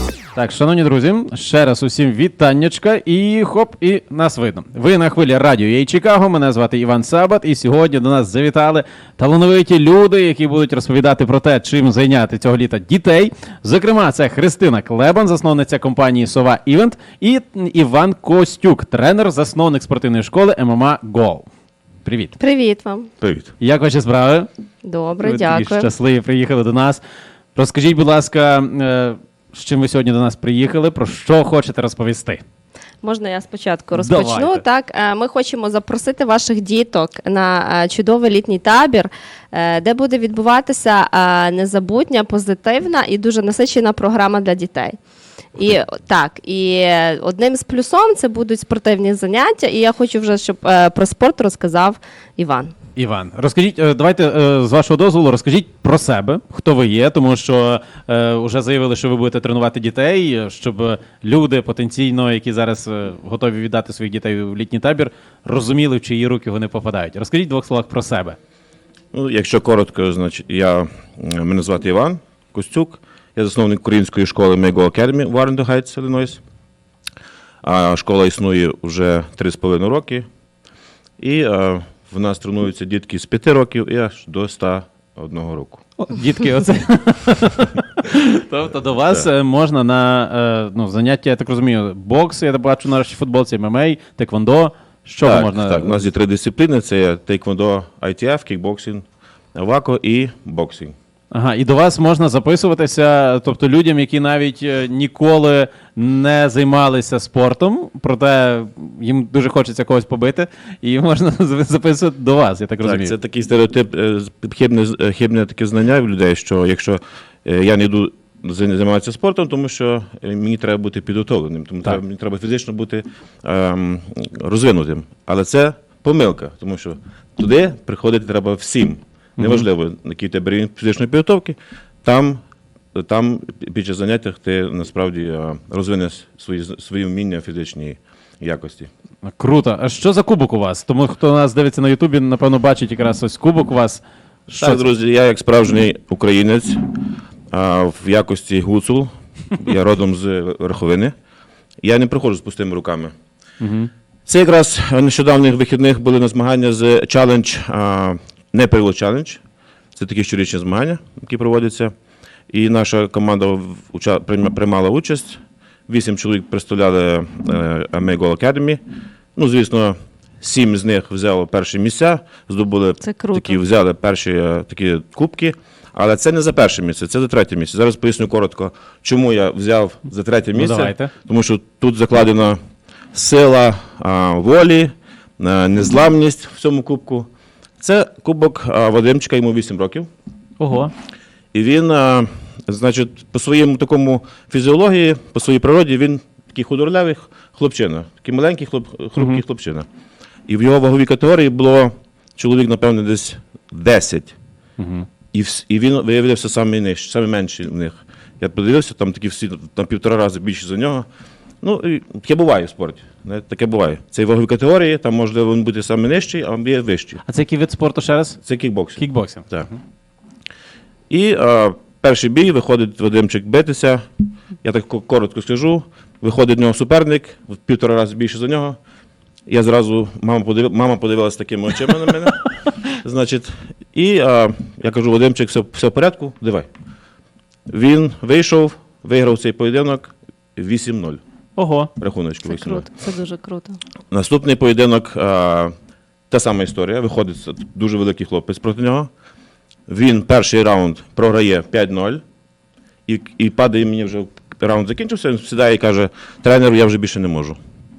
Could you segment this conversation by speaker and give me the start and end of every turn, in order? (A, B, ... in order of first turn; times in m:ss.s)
0:00.3-0:21.5 A
0:22.0-0:22.4 A
0:22.4-0:23.1 B
0:23.2-0:23.5 C
0:23.6-0:24.5 A
0:24.8-0:25.9 B
0:25.2-0:27.0 A
0:27.6-0:32.4 A
0:33.0-0:45.0 B
0:34.0-0:34.6 A
0:45.6-0:52.7 B
0:53.0-1:08.4 A
1:09.1-1:16.4 C
1:17.6-1:20.2 C
1:21.2-1:25.8 C
1:26.0-1:36.0 A
1:35.2-1:39.0 C
1:39.6-1:40.9 C
1:41.3-1:53.1 A
1:52.8-2:12.4 C
2:09.4-2:09.6 A
2:12.9-2:18.9 C
2:19.4-2:24.0 A
2:24.5-2:26.8 C
2:24.6-2:24.8 A
2:27.5-2:31.1 C
2:31.8-2:33.1 C
2:33.6-2:33.9 A
2:34.3-2:39.4 C
2:40.0-2:41.9 C
2:42.5-2:48.8 C
2:49.4-3:02.6 C
2:53.0-2:53.6 B
3:00.6-3:01.1 A
3:03.1-3:07.3 C
3:07.8-3:10.1 C
3:10.6-3:10.9 A
3:11.5-3:19.9 C
3:20.5-3:24.4 C
3:24.8-3:25.1 A
3:25.3-3:31.1 C
3:31.6-3:37.2 C
3:37.3-3:38.4 A
3:38.4-3:39.7 C
3:39.0-3:39.5 A
3:41.1-3:44.0 C
3:44.6-3:48.8 C
3:49.5-3:56.7 C
3:57.7-4:01.2 C
4:01.6-4:01.9 A
4:02.0-4:02.8 C
4:02.5-4:03.8 B
4:04.1-4:05.7 C
4:06.3-4:09.1 C
4:09.9-4:12.2 C
4:13.1-4:17.6 C